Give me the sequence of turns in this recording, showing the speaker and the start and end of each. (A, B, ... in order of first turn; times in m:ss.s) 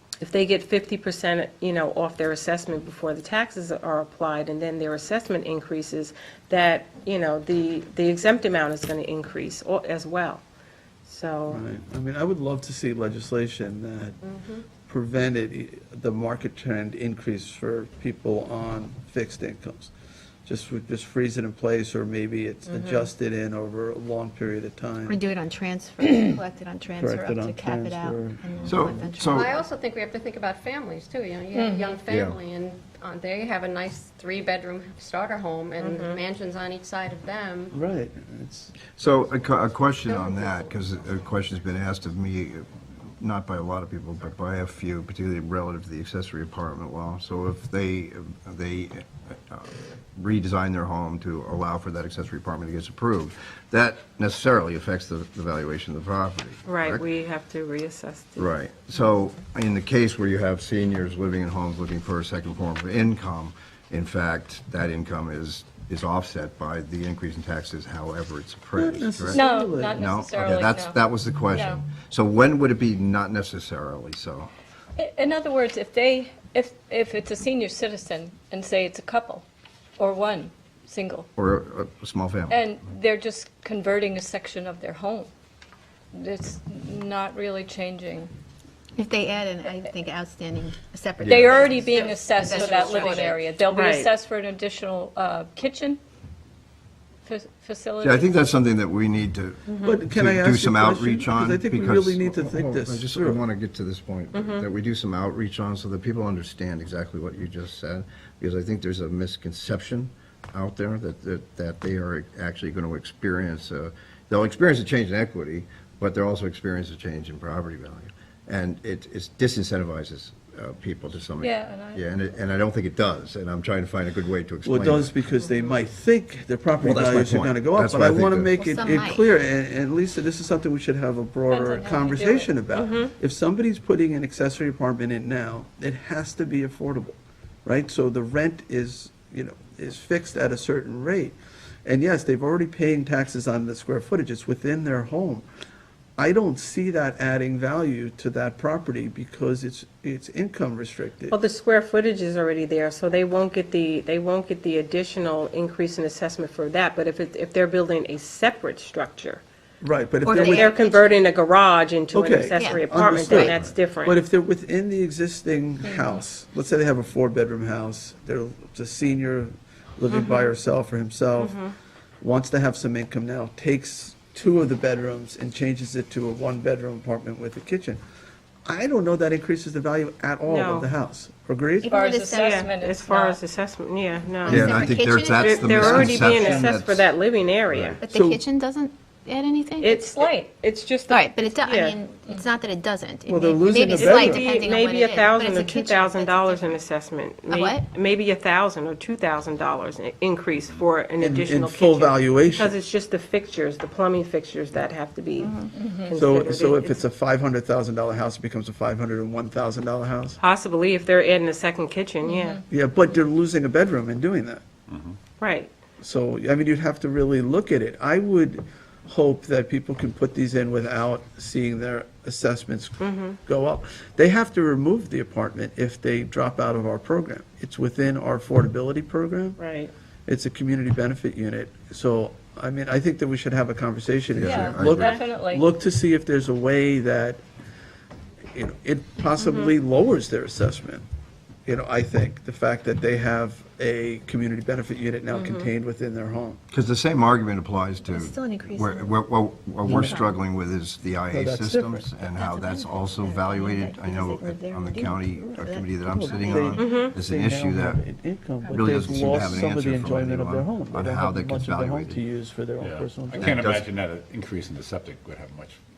0:00.2-0:10.4 A
0:11.0-0:11.6 A
0:11.5-0:19.9 B
0:14.2-0:14.6 C
0:20.5-0:25.2 B
0:22.7-0:23.1 A
0:25.1-0:29.5 D
0:27.0-0:28.6 B
0:28.6-0:29.6 E
0:29.3-0:37.8 C
0:31.5-0:32.0 F
0:32.1-0:32.4 E
0:35.8-0:36.2 A
0:37.7-0:39.0 B
0:39.0-0:57.0 E
0:56.6-0:58.5 A
0:58.4-1:14.5 E
1:08.8-1:10.0 B
1:09.3-1:11.0 F
1:11.5-1:11.8 F
1:15.0-1:19.4 F
1:20.0-1:21.3 F
1:21.4-1:22.6 E
1:22.5-1:25.3 F
1:26.1-1:28.3 F
1:29.0-1:33.4 D
1:31.2-1:31.7 E
1:31.2-1:36.0 F
1:32.6-1:34.1 A
1:37.2-1:38.4 F
1:38.0-2:05.1 E
1:39.7-1:40.0 A
1:39.8-1:43.4 B
1:44.3-1:44.7 A
2:01.4-2:02.0 F
2:04.6-2:25.5 B
2:06.8-2:08.6 E
2:08.6-2:09.2 D
2:11.5-2:12.5 F
2:12.7-2:13.1 A
2:26.2-2:31.4 B
2:31.3-2:39.4 A
2:39.8-2:40.7 B
2:40.2-2:41.1 D
2:40.3-2:44.2 A
2:42.1-2:51.6 B
2:42.5-2:43.5 D
2:45.8-2:46.2 F
2:50.1-2:50.5 A
2:51.4-2:51.7 A
2:52.2-2:58.0 B
2:58.7-3:02.0 B
3:00.5-3:00.9 A
3:01.8-3:02.7 D
3:01.8-3:03.4 F
3:02.2-3:08.0 A
3:04.4-3:06.7 D
3:04.5-3:07.1 E
3:08.0-3:10.1 D
3:08.0-3:08.4 B
3:09.8-3:12.0 A
3:10.1-3:10.5 F
3:11.1-3:16.8 D
3:13.3-3:14.6 B
3:13.9-3:27.0 A
3:17.5-3:17.8 D
3:21.2-3:22.8 B
3:25.7-3:26.1 F
3:26.1-3:30.4 B
3:30.4-3:32.6 A
3:32.2-3:32.6 F
3:32.7-3:34.6 B
3:34.9-3:35.2 G
3:35.4-3:35.7 A
3:36.0-3:49.6 B
3:43.0-3:43.4 A
3:49.6-3:49.9 A
3:50.3-3:57.4 B
3:54.3-3:55.2 E
3:54.4-3:55.7 F
3:58.5-4:01.0 B
3:59.4-3:59.7 A
4:01.7-4:06.6 B
4:05.3-4:05.7 A
4:06.7-4:18.0 E
4:08.0-4:09.2 D
4:09.8-4:10.3 B
4:11.3-4:12.1 B
4:12.3-4:16.9 D
4:16.1-4:23.5 B
4:16.8-4:17.1 A
4:18.6-4:19.1 D
4:18.7-4:22.2 E
4:22.8-4:25.8 G
4:23.3-4:23.9 E